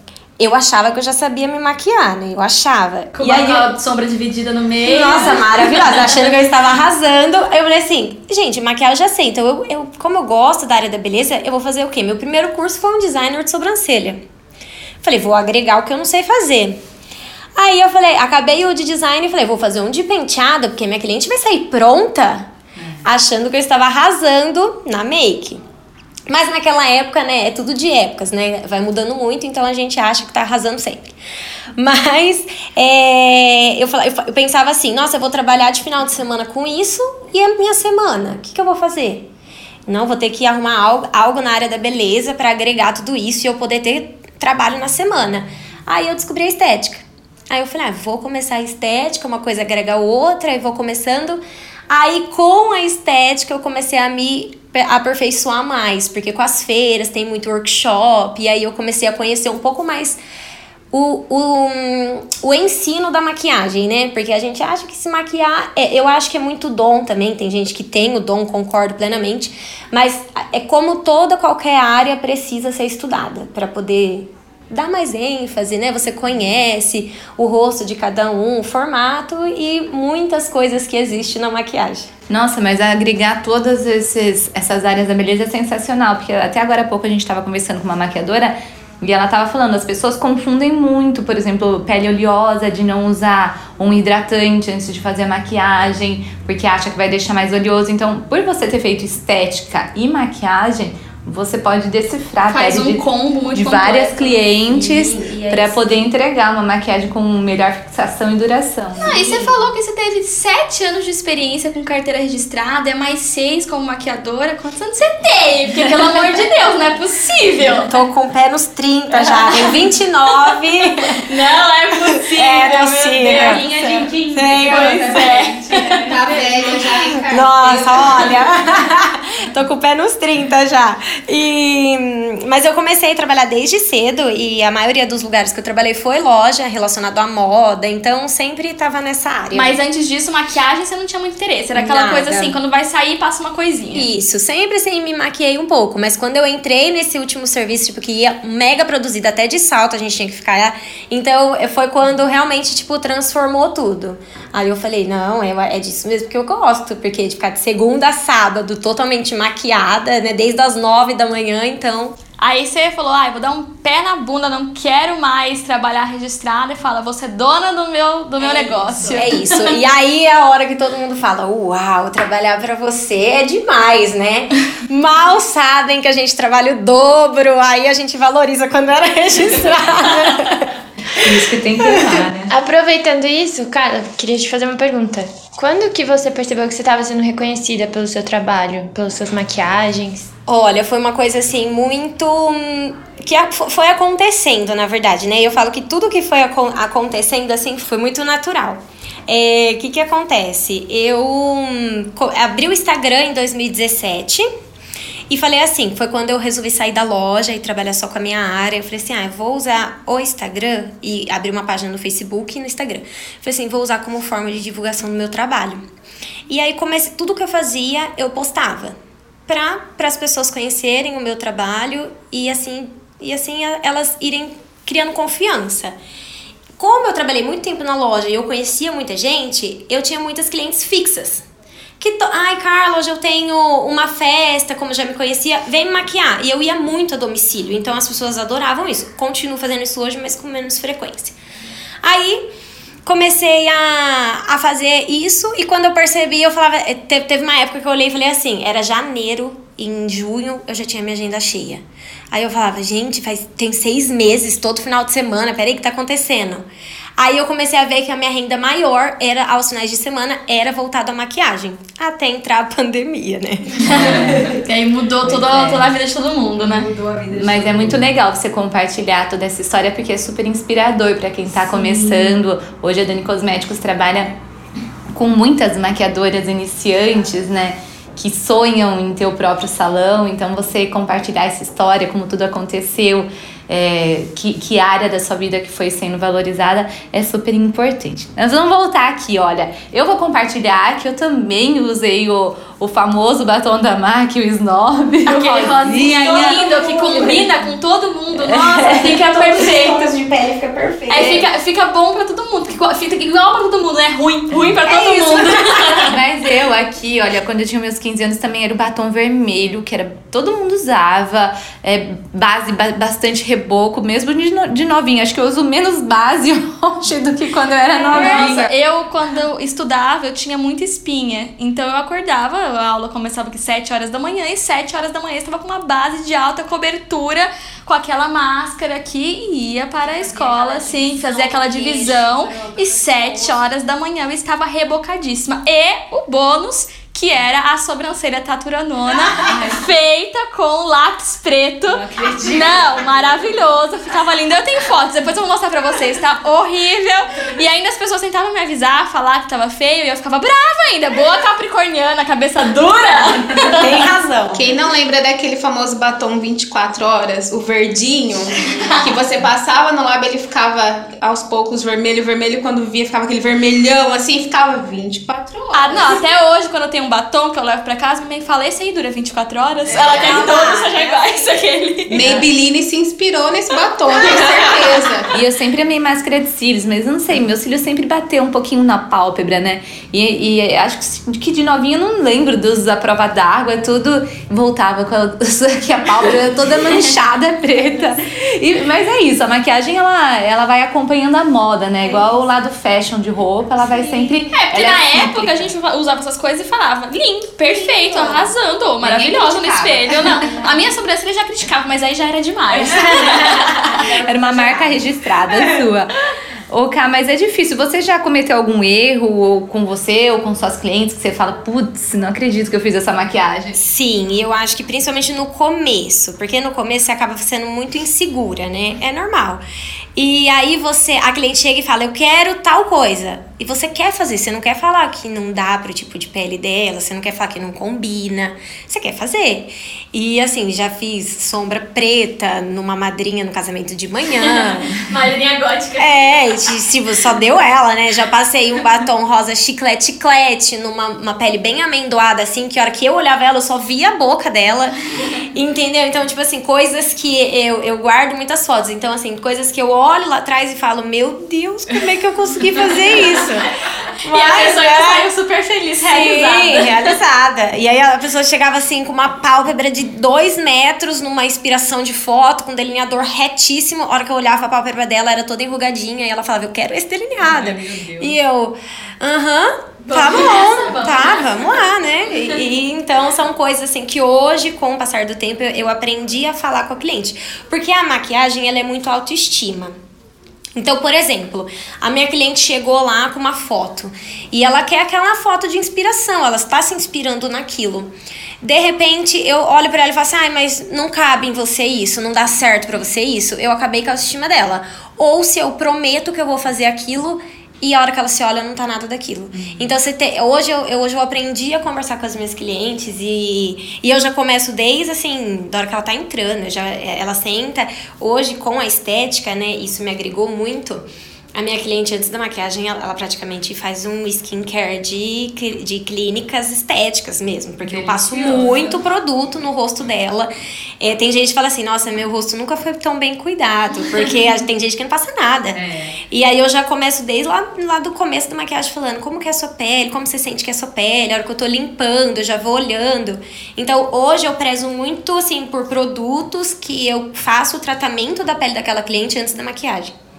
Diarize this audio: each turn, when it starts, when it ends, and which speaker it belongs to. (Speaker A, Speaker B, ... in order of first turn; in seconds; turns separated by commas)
Speaker A: 0.4-3.7, Speaker B: 3.1-6.0, Speaker A: 4.8-14.2, Speaker A: 15.0-16.8, Speaker A: 17.6-25.6, Speaker A: 26.3-31.1, Speaker A: 31.8-39.3, Speaker A: 39.9-60.2, Speaker A: 60.9-82.1, Speaker C: 82.3-109.2, Speaker B: 102.5-104.4, Speaker A: 104.6-106.0, Speaker B: 109.0-117.9, Speaker A: 109.0-109.6, Speaker A: 117.7-121.2, Speaker B: 119.2-120.0, Speaker B: 121.1-126.4, Speaker A: 122.1-126.0, Speaker D: 123.8-124.1, Speaker C: 124.6-125.5, Speaker D: 125.9-128.4, Speaker A: 126.9-139.8, Speaker B: 139.5-144.1, Speaker A: 141.8-142.6, Speaker A: 143.9-162.2, Speaker B: 162.4-169.8, Speaker A: 168.4-180.8, Speaker C: 181.1-182.5, Speaker E: 182.5-190.3, Speaker A: 190.5-204.5, Speaker A: 205.3-215.8, Speaker A: 216.5-226.0, Speaker A: 226.8-231.4, Speaker A: 232.0-241.4, Speaker A: 242.0-242.4, Speaker A: 243.1-256.7, Speaker A: 257.2-264.2, Speaker B: 263.9-266.9, Speaker C: 264.0-264.5, Speaker C: 265.2-265.9, Speaker D: 266.9-267.8, Speaker C: 267.3-274.3, Speaker C: 275.1-296.7, Speaker B: 295.2-300.2, Speaker D: 296.3-297.4, Speaker A: 296.8-297.3, Speaker C: 298.4-299.2, Speaker A: 299.0-301.5, Speaker B: 301.1-306.2, Speaker A: 304.9-306.0, Speaker C: 306.0-318.7, Speaker D: 318.1-318.7, Speaker B: 318.1-354.1, Speaker A: 330.5-333.6, Speaker C: 339.4-339.8, Speaker C: 341.9-343.0, Speaker A: 353.8-354.6, Speaker D: 354.5-366.2, Speaker B: 365.7-372.4, Speaker A: 370.0-371.2, Speaker D: 372.1-375.3, Speaker B: 374.2-374.6, Speaker C: 375.3-395.7, Speaker B: 394.5-403.8, Speaker C: 399.0-400.5, Speaker C: 403.4-406.1, Speaker C: 406.7-413.8, Speaker A: 413.8-419.6, Speaker A: 420.2-434.9, Speaker B: 434.4-436.7, Speaker A: 436.0-444.9, Speaker A: 445.5-453.7, Speaker A: 454.2-455.3, Speaker B: 454.3-457.2, Speaker A: 456.1-480.0, Speaker C: 467.4-468.3, Speaker B: 470.1-471.9, Speaker A: 480.8-540.1, Speaker C: 499.5-499.9, Speaker C: 517.8-519.0, Speaker C: 525.7-526.2